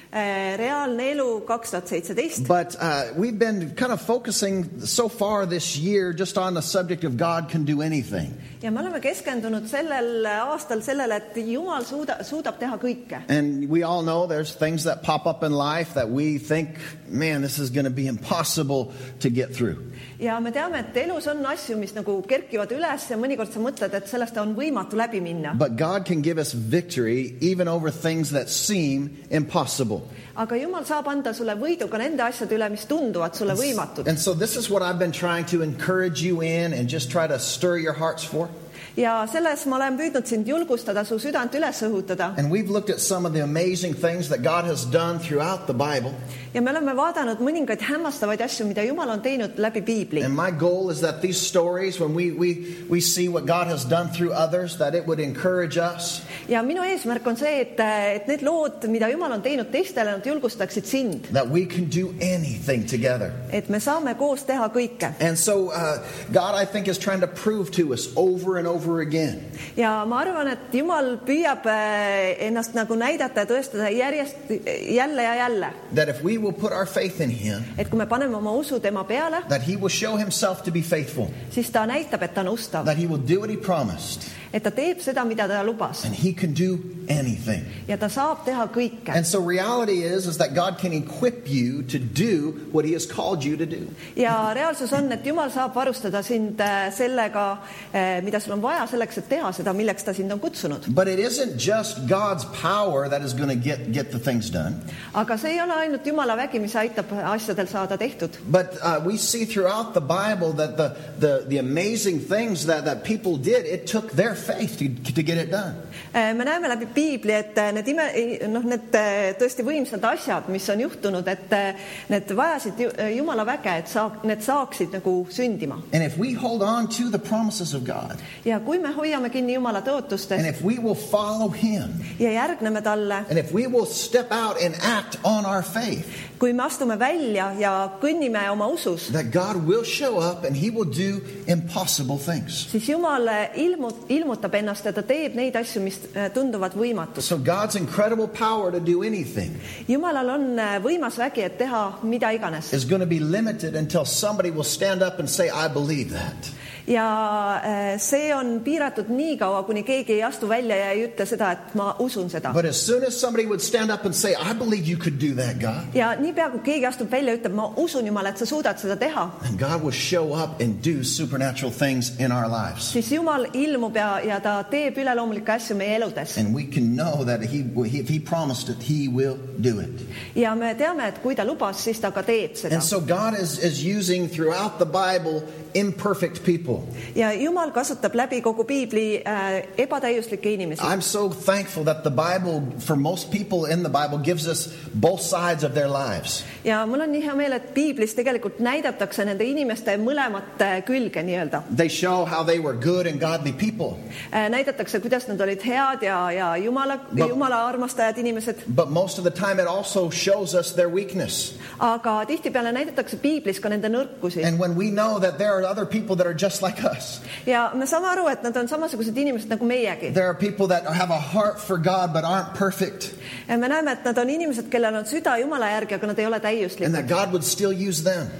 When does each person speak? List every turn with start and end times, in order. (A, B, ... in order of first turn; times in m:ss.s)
0:00.1-0:02.5 A
0:02.4-0:08.4 B
0:08.6-0:13.2 A
0:13.3-0:19.8 B
0:20.2-0:25.6 A
0:25.5-0:30.1 B
0:30.4-0:34.1 A
0:34.0-0:38.5 B
0:39.0-0:42.4 A
0:42.4-0:46.2 B
0:46.5-0:50.3 A
0:50.2-0:56.2 B
0:56.4-1:01.3 A
1:01.3-1:03.4 B
1:03.5-1:05.2 A
1:05.2-1:09.4 B
1:09.8-1:15.8 A
1:15.9-1:17.8 B
1:17.8-1:19.5 A
1:19.5-1:21.3 B
1:21.5-1:22.9 A
1:22.8-1:24.3 B
1:24.5-1:26.1 A
1:26.0-1:27.8 B
1:27.9-1:29.2 A
1:29.1-1:34.0 B
1:34.1-1:40.9 A
1:40.9-1:44.8 B
1:45.1-1:48.4 A
1:48.4-1:55.8 B
1:56.1-2:05.8 A
2:05.9-2:08.2 B
2:08.4-2:10.5 A
2:10.4-2:12.1 B
2:12.2-2:13.3 A
2:13.3-2:16.1 B
2:16.4-2:19.1 A
2:19.1-2:22.7 B
2:22.7-2:27.3 A
2:27.2-2:29.6 B
2:29.9-2:32.7 A
2:32.7-2:36.5 B
2:36.9-2:42.6 A
2:42.5-2:45.9 B
2:45.9-2:49.4 A
2:49.4-2:53.0 B
2:52.9-2:56.4 A
2:56.4-3:00.0 B
3:00.3-3:02.9 A
3:02.7-3:06.9 B
3:07.1-3:10.9 A
3:10.8-3:16.4 B
3:16.6-3:21.6 A
3:21.7-3:24.0 B
3:24.3-3:28.6 A
3:28.6-3:31.5 B
3:31.8-3:34.5 A
3:34.4-3:37.2 B
3:37.4-3:40.1 A
3:40.1-3:43.1 B
3:43.5-3:47.1 A
3:46.8-3:48.3 B